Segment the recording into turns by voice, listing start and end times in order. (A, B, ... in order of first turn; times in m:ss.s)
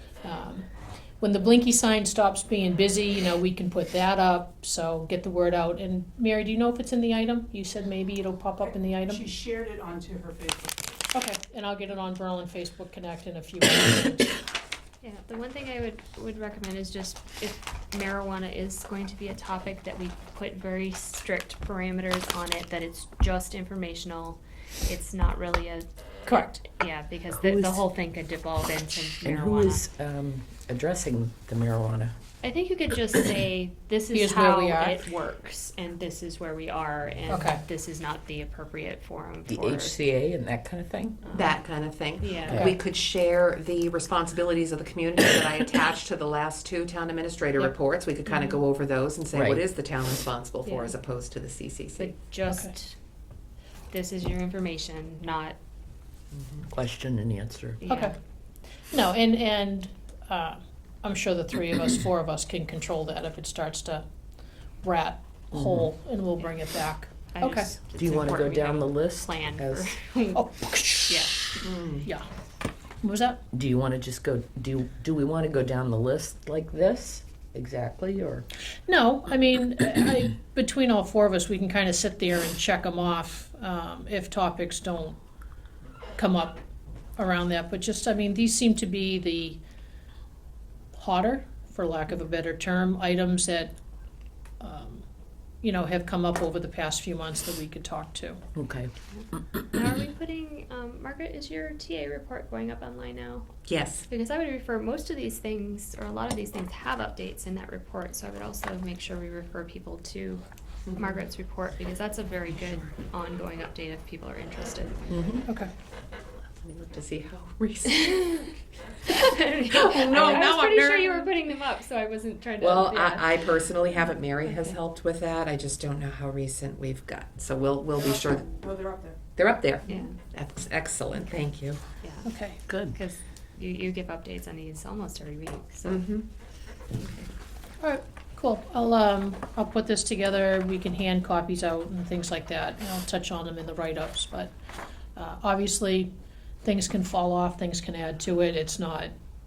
0:00.2-0:00.7 A
0:01.2-0:09.3 A
0:09.1-0:10.7 B
0:11.1-0:14.4 A
0:15.0-0:29.8 C
0:26.2-0:26.6 A
0:27.3-0:27.8 D
0:29.2-0:32.2 D
0:32.4-0:40.0 C
0:34.1-0:35.0 A
0:37.3-0:37.6 A
0:39.5-0:41.2 D
0:41.2-0:41.6 C
0:41.3-0:52.1 E
0:42.2-0:42.6 C
0:49.3-0:49.6 D
0:50.6-0:50.9 C
0:52.0-0:53.0 C
0:52.5-0:52.7 A
0:53.9-0:55.6 C
0:56.7-0:57.8 D
0:57.8-0:58.2 C
0:57.9-0:58.1 A
0:58.9-1:04.0 A
1:04.8-1:07.7 A
1:05.5-1:05.9 D
1:07.3-1:10.4 C
1:07.9-1:09.9 D
1:10.3-1:11.3 A
1:11.1-1:11.4 C
1:11.6-1:12.0 E
1:13.0-1:13.4 A
1:13.5-1:18.4 D
1:18.9-1:25.2 A
1:26.2-1:26.6 A
1:27.2-1:29.6 A
1:30.9-1:33.7 A
1:34.6-1:35.0 A
1:35.6-1:38.4 A
1:38.5-1:38.9 D
1:39.1-1:55.1 C
1:43.7-1:44.1 E
1:50.9-1:51.2 E
1:55.1-1:55.5 D
1:56.6-1:58.5 E
1:59.0-2:03.5 C
1:59.6-2:01.3 E
2:02.6-2:08.6 E
2:08.6-2:09.2 B
2:09.3-2:11.8 E
2:09.9-2:10.2 C
2:12.0-2:12.3 C
2:12.2-2:12.6 A
2:12.7-2:13.0 D
2:12.9-2:16.0 C
2:15.8-2:16.2 E
2:16.9-2:17.3 C
2:17.8-2:24.5 A
2:25.2-2:26.1 A
2:26.6-2:29.1 A